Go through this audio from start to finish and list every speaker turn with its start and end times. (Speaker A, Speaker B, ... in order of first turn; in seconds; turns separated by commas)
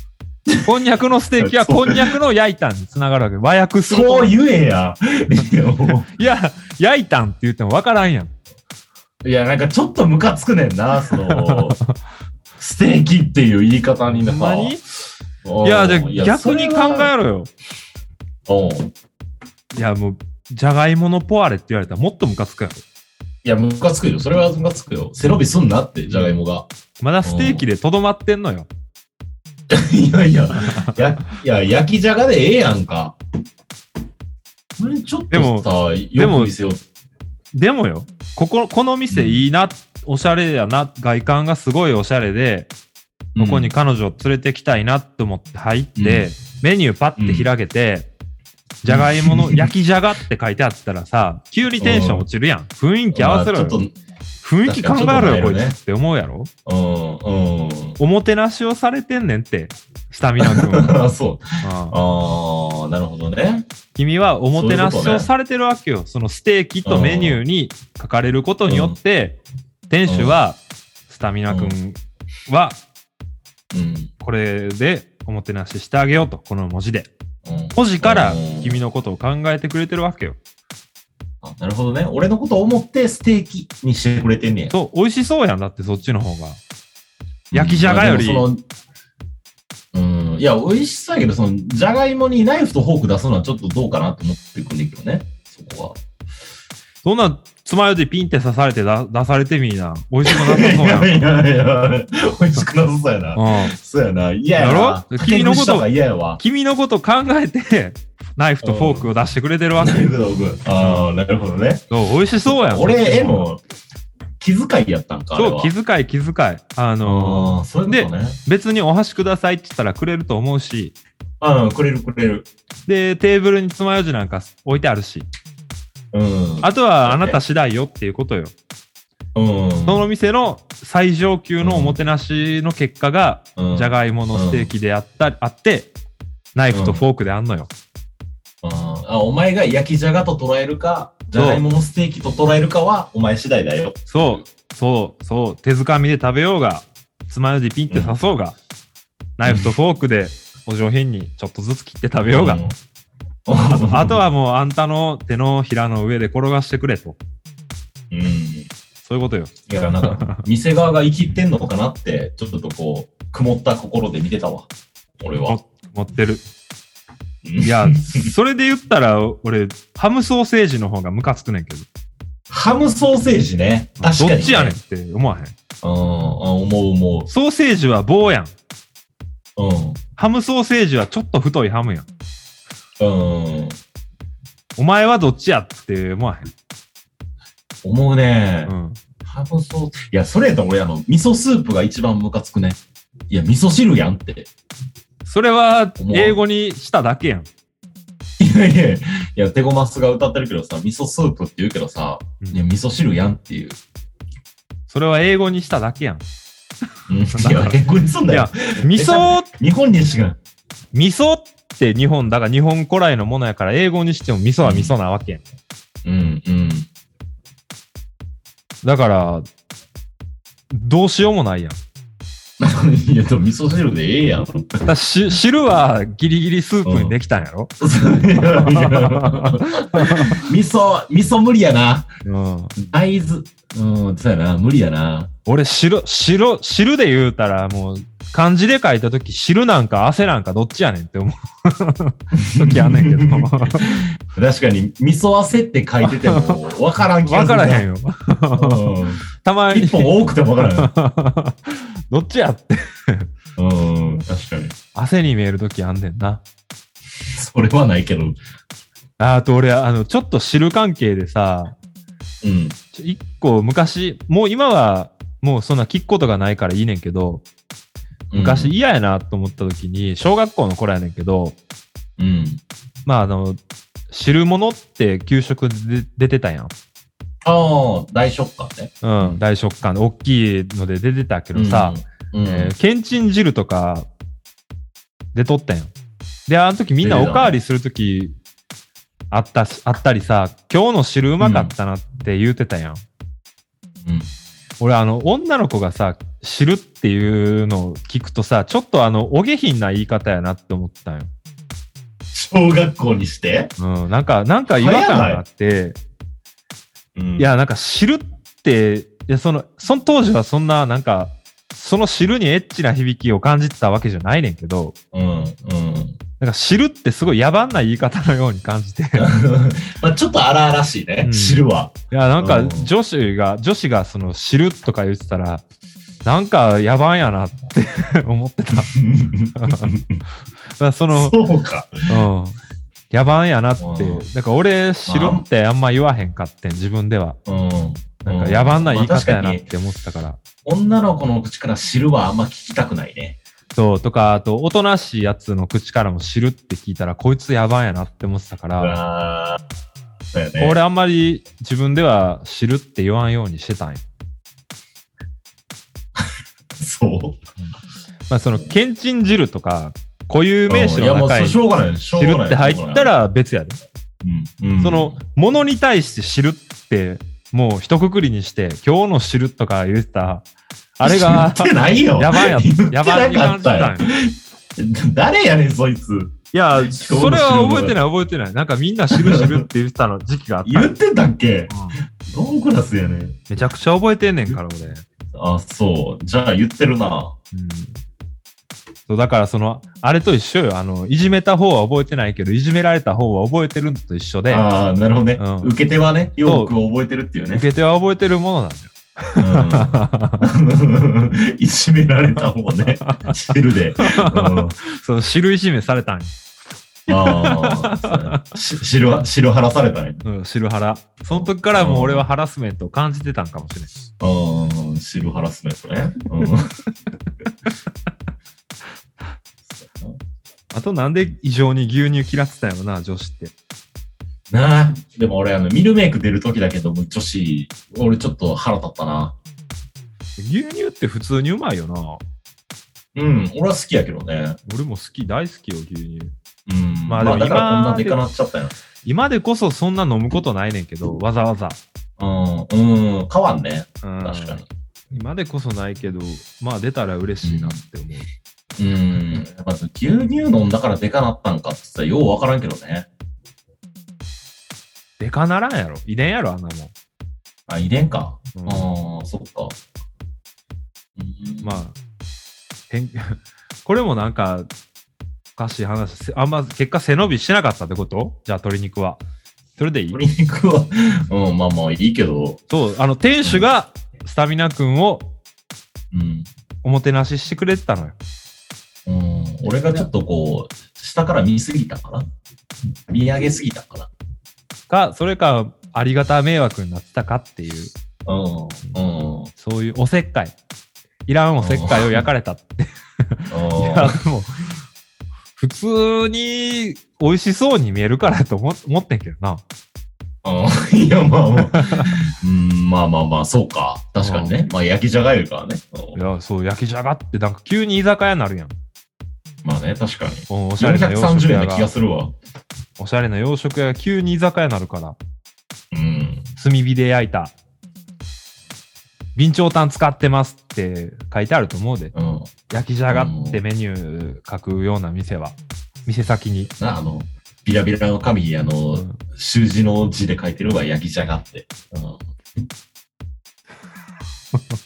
Speaker A: 0.6-4.3, Speaker B: 1.4-2.1, Speaker B: 3.9-6.1, Speaker A: 6.1-8.3, Speaker B: 9.2-11.8, Speaker A: 11.1-11.9, Speaker B: 12.6-14.8, Speaker A: 14.1-14.8, Speaker B: 15.4-17.1, Speaker A: 15.6-17.5, Speaker B: 18.5-18.9, Speaker A: 19.7-22.8, Speaker B: 23.4-26.7, Speaker A: 26.1-26.3, Speaker A: 27.0-28.7, Speaker B: 27.2-27.6, Speaker B: 29.7-33.1, Speaker A: 30.7-31.0, Speaker B: 34.8-36.8, Speaker A: 35.3-36.5, Speaker A: 37.5-42.7, Speaker B: 39.1-39.4, Speaker B: 43.3-43.7, Speaker A: 43.4-48.1, Speaker B: 46.0-46.3, Speaker B: 47.2-47.5, Speaker A: 48.8-53.8, Speaker B: 48.9-49.7, Speaker B: 51.8-52.2, Speaker B: 53.1-53.9, Speaker A: 54.4-56.5, Speaker B: 54.6-55.8, Speaker B: 56.6-58.0, Speaker A: 58.0-61.0, Speaker B: 60.4-63.6, Speaker A: 61.6-62.0, Speaker A: 63.9-69.4, Speaker B: 64.5-65.3, Speaker B: 66.8-67.4, Speaker B: 68.7-69.0, Speaker A: 69.9-72.8, Speaker B: 70.1-70.4, Speaker B: 71.5-71.7, Speaker B: 73.7-74.1, Speaker A: 74.2-77.1, Speaker B: 77.4-78.8, Speaker A: 77.7-80.4, Speaker B: 81.4-84.7, Speaker A: 84.7-86.6, Speaker B: 87.5-88.6, Speaker A: 87.5-88.5, Speaker B: 89.9-96.0, Speaker A: 97.0-101.2, Speaker B: 100.2-106.4, Speaker A: 103.3-103.8, Speaker A: 104.5-105.9, Speaker A: 106.4-110.0, Speaker B: 108.6-109.1, Speaker B: 109.8-111.8, Speaker A: 110.8-111.1, Speaker A: 111.9-113.5, Speaker B: 112.4-113.6, Speaker B: 114.4-115.7, Speaker A: 115.3-121.0, Speaker B: 117.0-118.4, Speaker B: 121.4-122.5, Speaker A: 122.9-125.3, Speaker B: 126.1-127.4, Speaker A: 126.6-128.5, Speaker B: 129.3-130.1, Speaker A: 129.9-135.9, Speaker B: 131.6-132.0, Speaker B: 133.6-134.7, Speaker A: 136.5-137.7, Speaker B: 136.7-137.0, Speaker B: 138.6-144.3, Speaker A: 141.3-141.6, Speaker A: 144.1-148.6, Speaker B: 147.9-148.2, Speaker A: 149.4-152.6, Speaker B: 149.4-149.7, Speaker B: 152.3-152.8, Speaker B: 153.4-154.2, Speaker A: 153.6-157.2, Speaker B: 158.1-158.7, Speaker A: 159.0-160.4, Speaker B: 159.7-164.7, Speaker B: 165.2-165.6, Speaker A: 165.4-166.4, Speaker B: 167.4-168.3, Speaker A: 167.6-171.9, Speaker B: 172.5-174.8, Speaker A: 174.0-175.5, Speaker B: 175.8-177.3, Speaker A: 177.3-178.5, Speaker B: 179.6-180.0, Speaker A: 180.2-182.1, Speaker B: 183.0-183.8, Speaker A: 184.8-186.5, Speaker B: 187.8-192.8, Speaker A: 188.7-189.0, Speaker B: 193.3-194.5, Speaker A: 195.2-197.5, Speaker B: 196.0-196.4, Speaker B: 198.4-203.8, Speaker A: 202.4-202.7, Speaker A: 204.9-206.2, Speaker B: 207.1-210.4, Speaker A: 207.3-209.5, Speaker A: 210.9-215.4, Speaker B: 214.6-214.9, Speaker B: 216.0-216.9, Speaker A: 218.8-219.4, Speaker A: 220.7-221.8, Speaker B: 222.6-224.8, Speaker A: 224.8-227.7, Speaker B: 226.8-227.1, Speaker B: 227.8-232.1, Speaker A: 228.4-230.5, Speaker A: 232.2-232.7, Speaker B: 232.8-235.3, Speaker A: 235.4-244.0, Speaker B: 242.3-247.8, Speaker A: 246.0-246.7, Speaker A: 247.2-253.3, Speaker B: 248.6-250.9, Speaker B: 253.6-254.7, Speaker A: 254.9-256.4, Speaker B: 257.2-258.4, Speaker A: 259.2-261.7, Speaker B: 262.4-262.8, Speaker A: 262.9-267.4, Speaker B: 268.3-268.7, Speaker A: 268.3-271.6, Speaker B: 272.2-272.6, Speaker A: 273.0-273.6, Speaker A: 274.1-276.7, Speaker B: 277.4-279.4, Speaker A: 279.0-284.1, Speaker B: 281.5-282.7, Speaker A: 285.3-285.9, Speaker A: 286.5-288.4, Speaker B: 287.0-287.6, Speaker A: 289.3-293.0, Speaker B: 291.4-291.7, Speaker B: 294.0-294.3, Speaker A: 294.8-301.3, Speaker B: 302.3-303.7, Speaker A: 303.8-306.0, Speaker B: 304.6-305.4, Speaker B: 307.1-307.5, Speaker A: 307.4-314.9, Speaker B: 315.1-316.2, Speaker A: 316.4-319.3, Speaker B: 319.2-322.9, Speaker A: 321.2-325.6, Speaker A: 326.2-328.9, Speaker B: 328.9-330.2, Speaker A: 329.5-329.9, Speaker A: 330.8-331.4, Speaker B: 331.1-331.9, Speaker A: 332.1-332.6, Speaker A: 333.1-337.4, Speaker B: 333.8-334.2, Speaker B: 335.1-335.4, Speaker B: 337.4-339.7, Speaker A: 338.2-340.4, Speaker B: 340.6-343.4, Speaker A: 343.7-349.0, Speaker B: 348.8-349.6, Speaker B: 350.3-350.8, Speaker A: 350.6-354.0, Speaker B: 356.1-357.4, Speaker A: 358.3-361.6, Speaker B: 360.7-363.1, Speaker A: 362.2-363.8, Speaker B: 364.2-365.2, Speaker A: 364.8-370.4, Speaker A: 371.0-374.1, Speaker B: 371.0-378.0, Speaker A: 376.5-380.9, Speaker B: 379.1-379.6, Speaker B: 380.6-381.7, Speaker A: 381.7-381.9, Speaker B: 382.2-383.4, Speaker A: 383.5-385.0, Speaker B: 385.3-387.3, Speaker A: 387.5-388.0, Speaker A: 389.1-394.6, Speaker B: 394.5-397.6, Speaker A: 395.4-395.7, Speaker A: 396.4-396.7, Speaker A: 397.5-400.4, Speaker B: 399.4-404.8, Speaker A: 403.0-403.4, Speaker A: 404.0-406.3, Speaker A: 407.1-408.4, Speaker B: 407.1-410.2, Speaker A: 410.2-413.9, Speaker B: 411.2-412.3, Speaker B: 414.2-416.6, Speaker B: 419.7-420.2, Speaker A: 420.7-423.5, Speaker B: 424.5-429.3, Speaker A: 430.4-432.2, Speaker B: 433.1-434.6, Speaker A: 434.6-436.3, Speaker B: 436.7-438.7, Speaker A: 437.1-438.2, Speaker A: 439.0-441.8, Speaker B: 442.2-444.6, Speaker A: 444.0-448.3, Speaker B: 447.4-447.8, Speaker B: 448.8-453.1, Speaker A: 455.2-456.9, Speaker B: 457.7-459.8, Speaker A: 458.5-458.9, Speaker B: 461.2-461.8, Speaker A: 461.6-461.9, Speaker A: 462.9-464.7, Speaker A: 465.6-469.2, Speaker A: 469.8-470.2, Speaker B: 470.1-472.6, Speaker A: 472.7-475.2, Speaker B: 476.1-476.5, Speaker A: 476.8-478.1, Speaker B: 479.1-482.3, Speaker B: 483.1-484.1, Speaker A: 484.9-487.9, Speaker B: 488.2-489.5, Speaker A: 489.6-490.5, Speaker A: 491.3-494.5, Speaker B: 491.6-492.2, Speaker B: 493.5-494.2, Speaker A: 495.6-499.6, Speaker B: 500.4-506.1, Speaker A: 501.6-502.2, Speaker A: 504.2-504.6, Speaker A: 506.1-508.7, Speaker B: 509.6-512.3, Speaker A: 510.5-511.9, Speaker A: 513.0-515.2, Speaker B: 515.9-516.5, Speaker A: 516.6-517.5, Speaker A: 519.3-522.1, Speaker B: 522.1-522.5, Speaker A: 522.7-526.7, Speaker B: 523.1-523.6, Speaker B: 526.8-532.2, Speaker A: 528.9-529.2